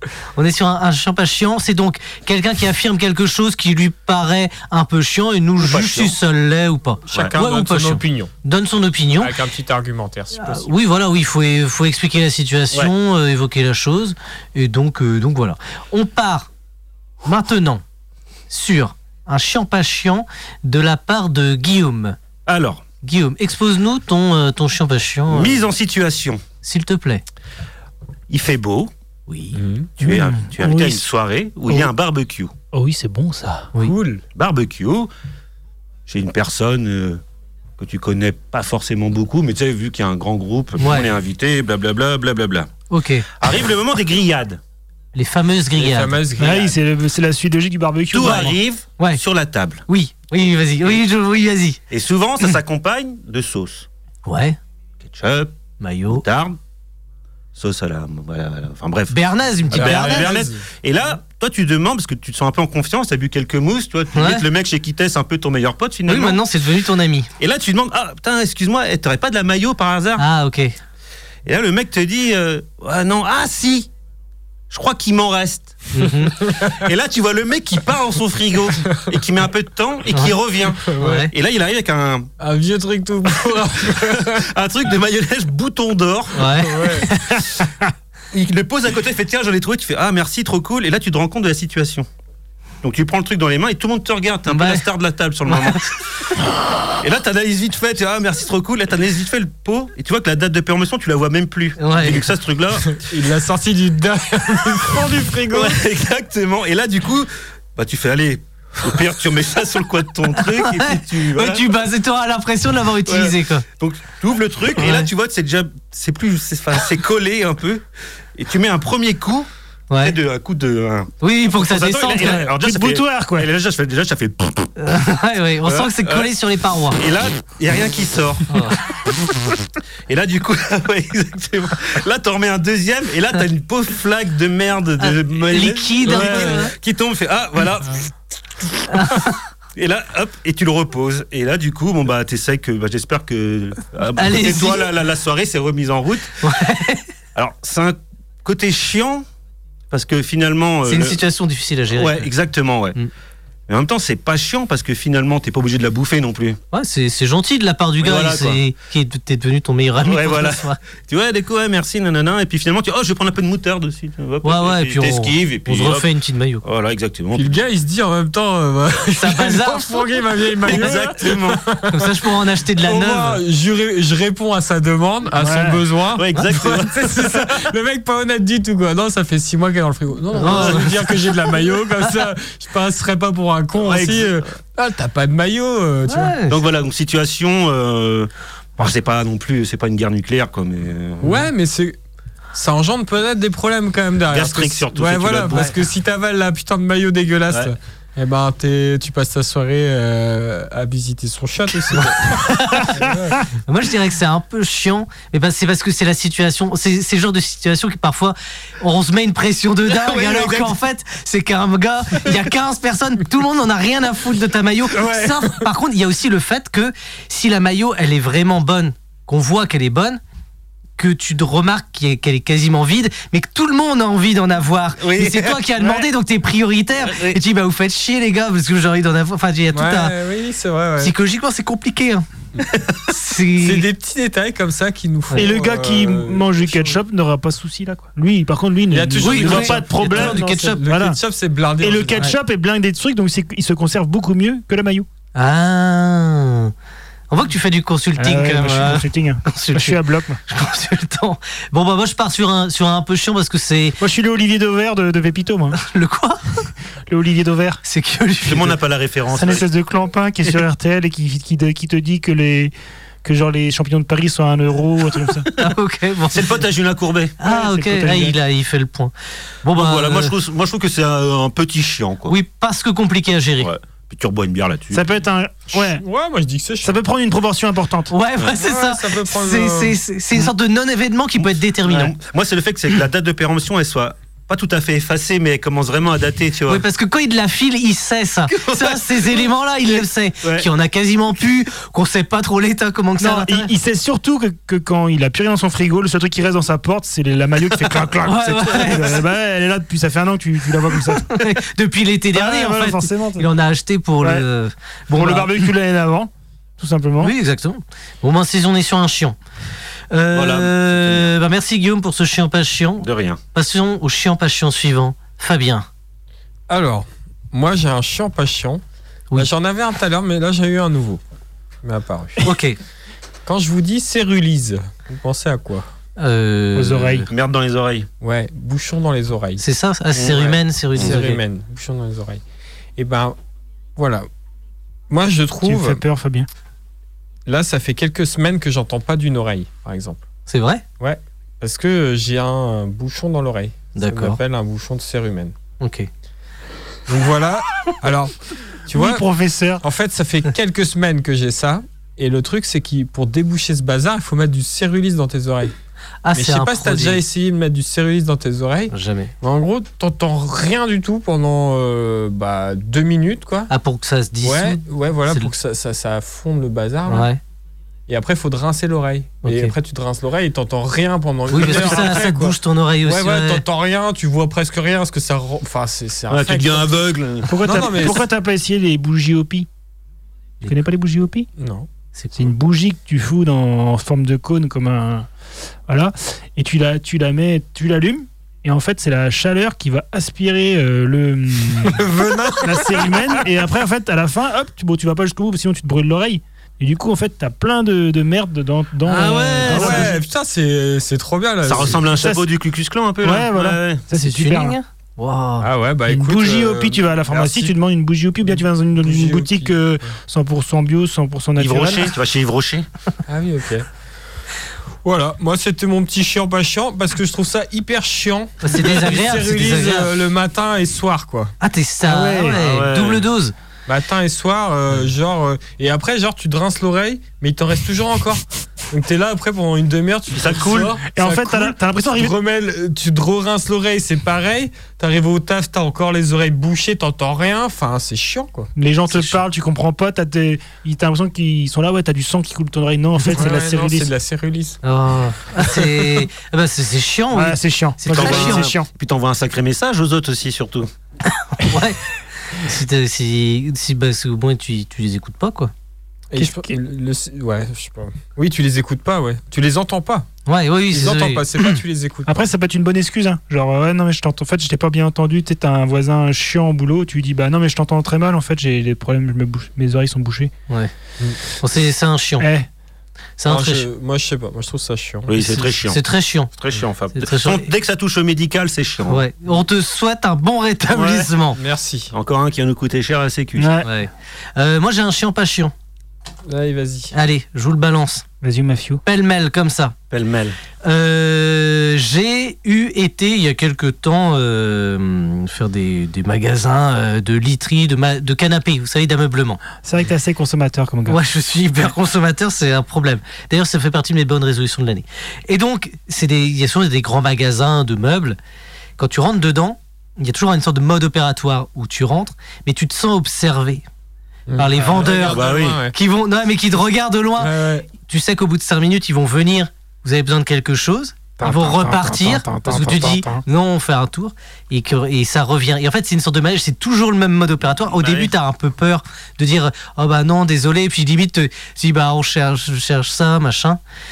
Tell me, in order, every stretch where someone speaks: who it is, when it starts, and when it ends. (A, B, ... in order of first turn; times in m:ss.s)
0:00.3-0:09.3 A
0:05.6-0:06.1 B
0:07.1-0:08.3 C
0:09.2-0:10.7 C
0:10.4-0:16.5 A
0:17.2-0:17.8 A
0:18.5-0:22.2 A
0:22.4-0:22.8 B
0:23.0-0:25.6 A
0:25.3-0:26.4 B
0:26.6-0:27.2 A
0:28.3-0:28.9 B
0:29.3-0:29.6 A
0:29.5-0:29.9 C
0:30.0-0:32.5 B
0:30.0-0:31.0 D
0:32.7-0:33.7 D
0:33.8-0:34.2 C
0:34.3-0:35.1 B
0:36.1-0:37.2 B
0:37.8-0:42.7 B
0:40.8-0:41.1 A
0:42.9-0:43.2 A
0:43.3-0:44.6 B
0:45.1-0:46.1 A
0:45.8-0:46.8 C
0:46.4-0:48.6 D
0:48.1-0:49.8 B
0:49.9-0:51.8 A
0:51.9-0:53.9 B
0:54.2-0:54.6 A
0:55.0-0:55.5 B
0:55.8-0:56.2 A
0:56.1-0:56.6 B
0:57.5-0:59.2 B
0:59.1-1:00.3 A
0:59.7-1:06.4 B
0:59.7-1:00.6 C
1:04.1-1:04.4 A
1:06.1-1:07.3 A
1:07.4-1:10.2 B
1:10.2-1:10.8 A
1:11.4-1:13.9 B
1:14.7-1:22.3 B
1:15.9-1:16.4 A
1:20.1-1:20.4 A
1:20.8-1:21.2 C
1:21.0-1:21.3 A
1:22.4-1:24.5 C
1:23.8-1:26.7 B
1:26.3-1:27.2 A
1:26.6-1:27.1 C
1:28.3-1:32.1 B
1:32.8-1:36.3 B
1:34.5-1:34.8 A
1:37.0-1:43.0 B
1:41.8-1:42.2 A
1:42.9-1:45.8 C
1:45.5-1:51.7 B
1:50.4-1:53.6 A
1:53.0-1:59.5 B
1:54.8-1:55.1 A
1:59.9-2:00.2 A
2:00.0-2:04.7 B
2:01.2-2:02.4 A
2:02.2-2:03.5 D
2:04.8-2:07.0 A
2:05.6-2:06.3 B
2:06.9-2:18.1 B
2:08.5-2:08.8 A
2:15.0-2:16.7 A
2:18.9-2:19.4 A
2:19.7-2:26.4 B
2:24.2-2:24.9 A
2:26.4-2:27.0 A
2:27.3-2:29.2 B
2:29.9-2:31.2 B
2:30.9-2:32.3 A
2:31.9-2:33.0 B
2:33.7-2:36.6 B
2:36.7-2:40.8 A
2:38.0-2:38.6 B
2:40.0-2:46.1 B
2:44.4-2:46.6 A
2:46.6-2:47.6 B
2:47.3-3:06.3 C
2:49.2-2:50.0 A
2:50.7-2:51.6 B
2:51.9-2:53.4 A
2:55.4-2:55.8 D
2:56.1-2:57.7 B
3:00.4-3:01.2 A
3:00.4-3:00.9 B
3:03.8-3:04.4 B
3:06.1-3:06.6 A
3:06.5-3:11.5 B
3:11.2-3:12.0 C
3:12.5-3:23.5 C
3:14.3-3:15.7 B
3:22.4-3:22.9 A
3:23.6-3:40.2 A
3:29.9-3:30.8 B
3:35.0-3:35.6 C
3:41.0-3:50.1 A
3:45.0-3:45.6 B
3:45.8-3:46.1 D
3:47.0-3:47.4 B
3:49.7-3:51.1 C
3:51.0-3:52.2 A
3:52.7-3:53.0 B
3:53.1-3:53.9 A
3:53.6-3:57.0 C
3:55.3-4:01.2 D
3:58.9-4:02.3 C
3:59.2-4:00.8 A
4:01.8-4:05.1 D
4:05.3-4:06.7 A
4:07.3-4:14.0 A
4:08.2-4:10.4 D
4:14.0-4:15.8 D
4:15.8-4:16.6 A
4:17.1-4:17.8 D
4:17.8-4:18.8 A
4:18.4-4:19.7 B
4:19.3-4:22.7 D
4:23.2-4:25.5 D
4:25.6-4:26.6 A
4:26.3-4:27.4 B
4:27.4-4:29.1 A
4:27.4-4:28.4 D
4:29.6-4:30.3 A
4:29.7-4:32.3 B
4:32.3-4:33.7 A
4:33.6-4:35.1 B
4:34.9-4:36.0 D
4:35.7-4:37.0 C
4:36.8-4:38.1 D
4:38.1-4:42.1 A
4:38.6-4:40.0 C
4:41.4-4:46.8 B
4:46.7-4:53.7 A
4:48.5-4:50.7 B
4:53.2-5:01.4 D
4:58.2-4:59.2 A
5:01.2-5:05.6 A
5:02.3-5:03.5 D
5:04.2-5:04.4 D
5:05.1-5:07.3 D
5:07.2-5:09.4 A
5:10.1-5:15.9 A
5:10.3-5:11.3 B
5:13.0-5:13.4 B
5:16.7-5:18.8 C
5:19.3-5:21.2 C
5:21.8-5:22.5 C
5:22.4-5:22.8 A
5:23.4-5:25.9 C
5:26.2-5:27.3 A
5:26.7-5:27.2 D
5:27.3-5:28.1 B
5:28.2-5:29.6 C
5:29.6-5:31.4 A
5:30.1-5:31.2 B
5:30.9-5:32.4 C
5:33.0-5:33.4 C
5:34.0-5:34.3 C
5:35.1-5:36.0 C
5:35.6-5:36.5 D
5:37.5-5:40.2 C
5:40.5-5:40.8 A
5:41.0-5:45.5 C
5:44.0-5:44.4 A
5:45.8-5:46.1 A
5:47.1-5:49.2 C
5:48.9-5:49.8 D
5:49.8-5:55.7 C
5:56.2-5:57.2 A
5:56.3-6:03.7 C
5:58.9-5:59.3 A
6:03.7-6:05.5 A
6:04.4-6:07.3 C
6:07.1-6:07.4 A
6:08.1-6:17.0 C
6:09.4-6:09.7 A
6:11.5-6:13.6 A
6:16.3-6:18.2 B
6:17.5-6:19.7 D
6:17.6-6:18.2 C
6:20.6-6:21.5 D
6:21.6-6:21.9 C
6:22.4-6:25.3 D
6:25.9-6:32.0 D
6:31.9-6:33.4 C
6:32.6-6:40.2 D
6:39.0-6:40.1 A
6:39.6-6:42.0 C
6:41.6-6:44.0 B
6:42.2-6:42.5 D
6:43.2-6:44.8 D
6:44.1-6:45.7 A
6:45.6-6:47.7 C
6:46.1-6:52.1 D
6:48.4-6:50.0 C
6:51.6-6:52.9 B
6:53.3-6:53.9 C
6:55.0-7:01.5 C
6:58.6-7:00.1 A
7:01.6-7:03.5 A
7:02.1-7:02.6 D
7:02.5-7:03.3 B
7:03.9-7:18.7 C
7:10.3-7:11.0 B
7:11.1-7:12.3 D
7:18.8-7:24.1 D
7:19.1-7:19.4 A
7:23.3-7:24.8 C
7:24.8-7:28.7 A
7:27.3-7:28.9 D
7:28.1-7:30.9 B
7:31.3-7:35.7 A
7:36.3-7:40.3 C
7:36.4-7:36.7 D
7:40.4-7:41.4 A
7:40.9-7:42.4 C
7:42.2-7:50.5 D
7:51.5-7:52.5 A
7:52.4-7:52.7 D
7:53.4-7:53.9 A
7:53.4-7:55.4 C
7:55.3-7:56.0 B
7:55.4-7:56.5 A
7:56.5-7:59.2 B
7:57.1-7:57.7 A
7:59.1-8:01.6 A
8:00.9-8:01.3 B
8:01.5-8:02.1 C
8:02.1-8:03.8 B
8:03.6-8:03.9 D
8:03.8-8:05.7 A
8:06.4-8:07.1 C
8:07.1-8:08.2 A
8:08.4-8:09.0 D
8:09.0-8:09.9 A
8:10.1-8:10.6 B
8:10.8-8:19.6 A
8:19.8-8:21.2 D
8:21.1-8:28.4 A
8:29.0-8:33.8 A
8:34.5-8:35.9 C
8:34.6-8:53.8 A
8:35.0-8:35.8 B
8:37.4-8:37.9 C
8:41.4-8:43.4 D
8:47.9-8:48.3 B